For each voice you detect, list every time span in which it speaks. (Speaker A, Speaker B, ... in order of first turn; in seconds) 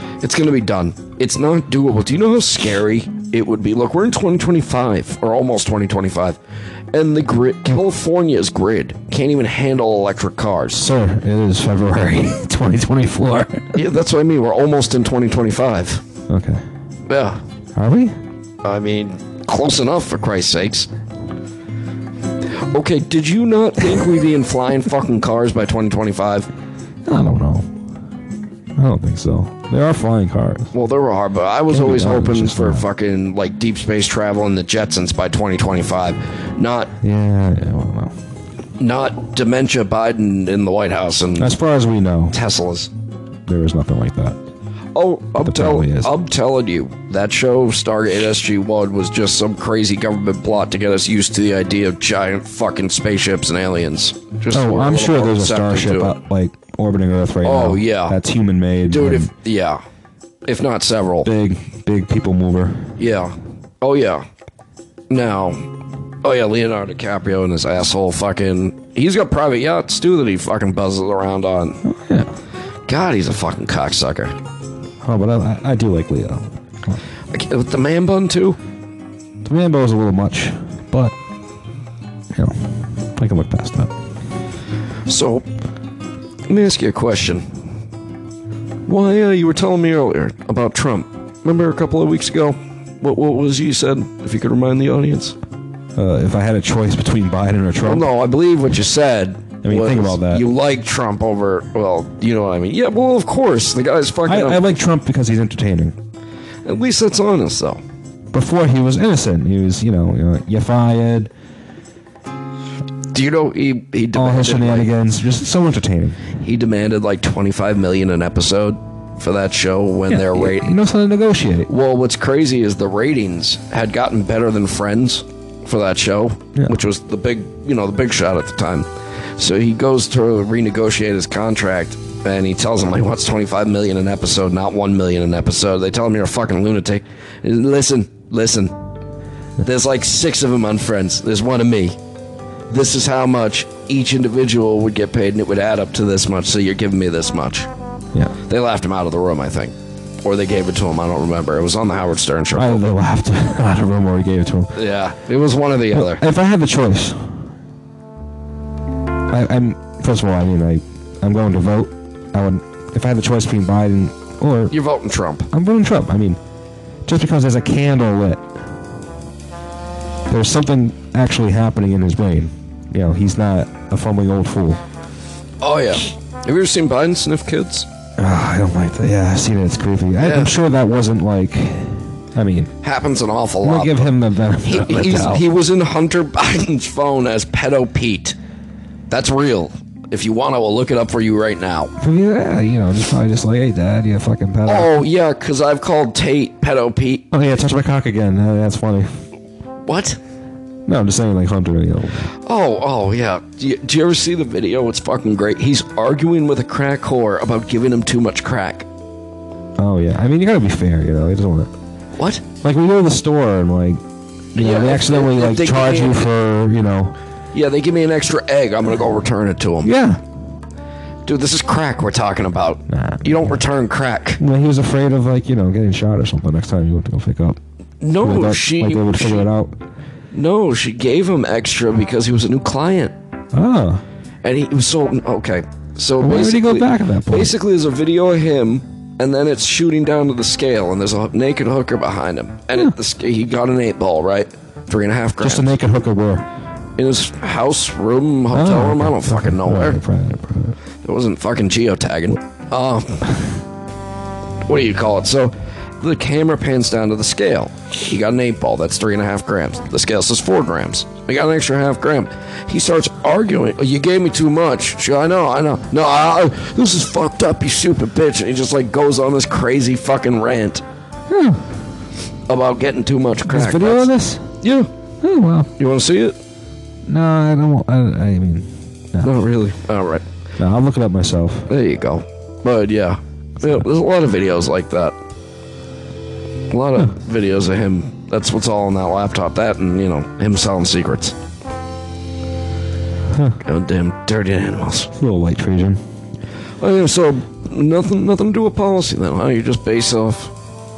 Speaker A: 0.2-6.4, 6.9-10.9, 13.7-16.0, 17.1-17.4, 18.6-20.9, 22.6-26.5, 30.7-36.9, 38.8-41.5, 42.3-42.9, 44.9-56.2, 57.4-58.2, 58.9-59.8, 60.5-61.3, 63.0-64.2, 65.1-65.7, 66.2-71.8, 72.9-74.3, 77.3-78.6, 85.1-85.5, 86.5-87.5, 88.9-95.4, 97.8-104.7, 106.7-107.8, 113.1-114.9, 116.4-120.8, 121.7-138.7, 139.6-142.0, 142.7-147.7, 148.5-152.8, 154.8-156.2, 164.7-165.5, 175.6-177.9, 180.2-180.5, 182.8-188.4, 189.1-191.9, 194.7-197.3, 199.9-200.2, 202.4-208.9, 212.2-212.4, 214.6-216.3, 217.5-219.9, 221.3-224.4, 228.0-229.5, 230.3-233.1, 234.4-245.8, 247.0-250.0, 251.0-253.5, 254.7-270.8, 272.5-274.9, 275.8-276.4, 279.2-280.2, 281.7-285.2, 286.7-291.4, 293.6-295.1, 296.8-300.5
Speaker B: 10.8-13.8, 16.3-16.6, 17.8-18.1, 27.1-27.7, 28.8-30.7, 31.7-32.9, 37.0-38.1, 41.4-42.4, 43.5-44.4, 45.4-46.1, 54.5-59.3, 61.2-62.9, 71.8-72.3, 75.0-77.0, 79.5-81.2, 82.3-83.9, 96.0-98.0, 99.6-100.4, 104.2-106.0, 108.3-111.3, 114.2-116.2, 120.1-121.7, 152.6-154.8, 155.9-157.4, 159.3-164.7, 165.5-166.4, 167.1-168.5, 170.3-174.8, 178.2-182.7, 183.6-185.5, 192.0-194.9, 197.3-199.1, 200.9-202.3, 209.8-211.7, 212.6-214.0, 214.6-217.2, 219.8-220.2, 222.9-223.5, 224.4-227.6, 228.2-229.8, 233.5-234.0, 236.2-237.6, 245.4-246.5, 248.5-250.8, 271.3-271.6, 273.5-274.5, 275.2-275.7, 277.1-279.4, 280.6-281.7, 295.2-296.0